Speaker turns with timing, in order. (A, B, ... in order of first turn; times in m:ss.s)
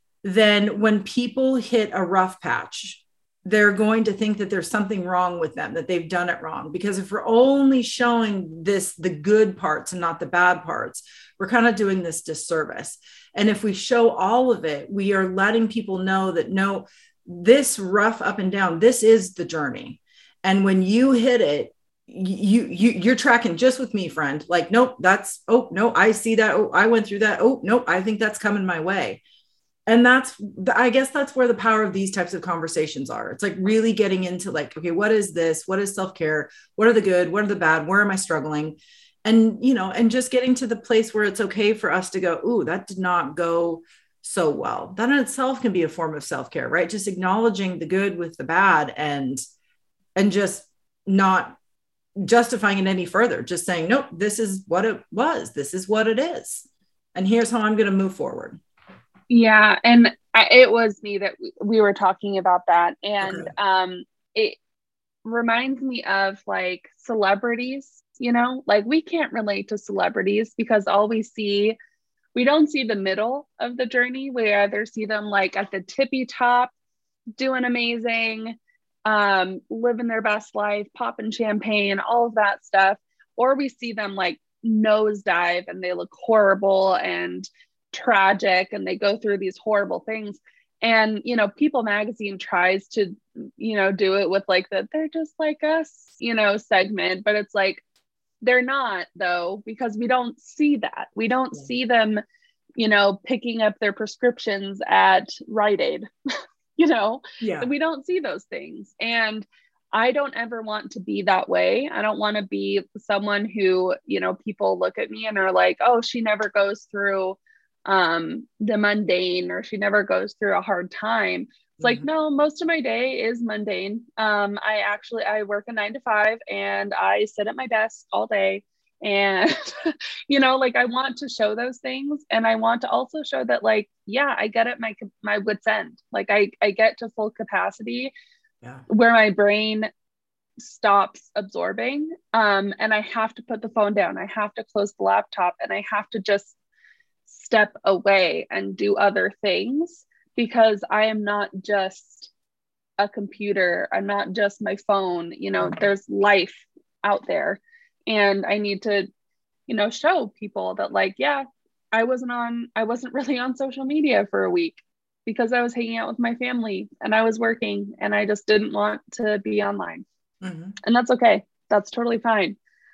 0:00.2-0:29.2 A
0:29.9-0:49.4 A
0:50.2-0:51.6 A
0:52.2-0:58.6 A
0:59.3-1:04.6 B
1:03.2-1:03.5 A
1:05.2-1:11.8 B
1:12.3-1:16.7 B
1:17.4-1:37.8 B
1:38.4-1:42.2 B
1:42.8-1:46.1 B
1:46.8-2:18.1 B
1:47.4-1:47.7 A
2:01.8-2:02.1 A
2:18.9-2:19.9 B
2:20.6-2:26.5 B
2:27.3-2:32.3 B
2:33.0-2:39.1 B
2:35.6-2:35.8 A
2:39.7-2:50.0 B
2:50.4-2:50.8 A
2:50.8-2:52.6 B